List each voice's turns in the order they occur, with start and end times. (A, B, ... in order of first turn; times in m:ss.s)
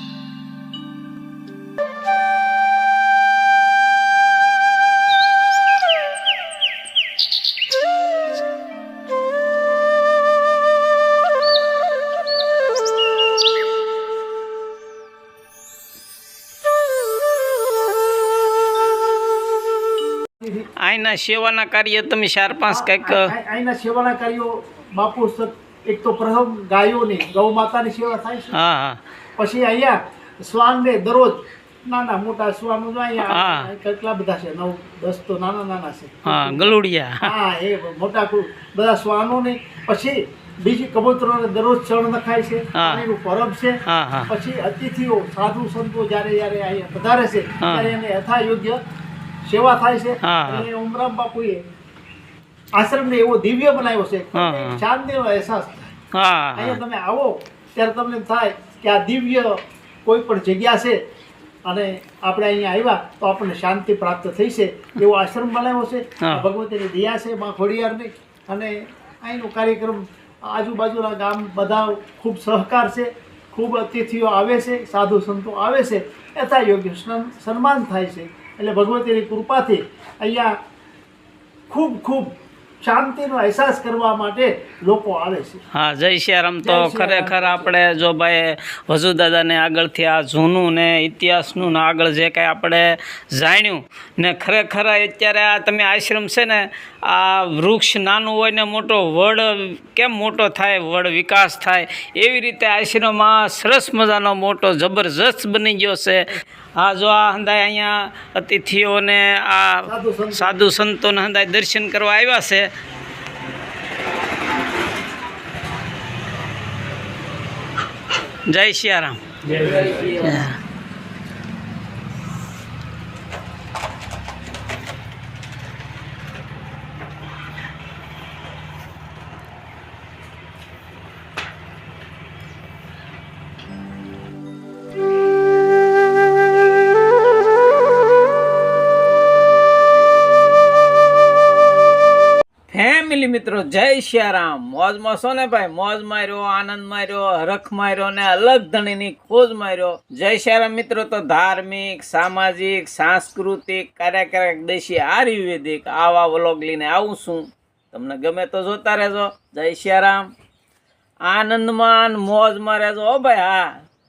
0:20.8-0:23.3 A
0:22.7-0:28.5 B
0:28.5-0:29.0 A
0:29.4-0:48.8 B
0:33.3-0:33.7 A
0:36.2-0:37.3 A
0:42.8-0:43.0 A
0:43.8-0:44.3 A
0:47.6-0:47.9 A
0:49.4-0:51.6 B
0:50.2-0:50.7 A
0:52.8-0:55.9 B
0:54.3-0:54.8 A
0:56.1-0:56.8 A
0:56.5-1:01.0 B
1:01.7-1:20.5 B
1:21.7-1:25.6 B
1:25.7-1:52.7 A
1:26.6-1:27.7 B
1:49.8-1:50.6 B
1:58.5-2:00.6 A
2:22.7-2:40.3 C
2:41.3-2:43.8 C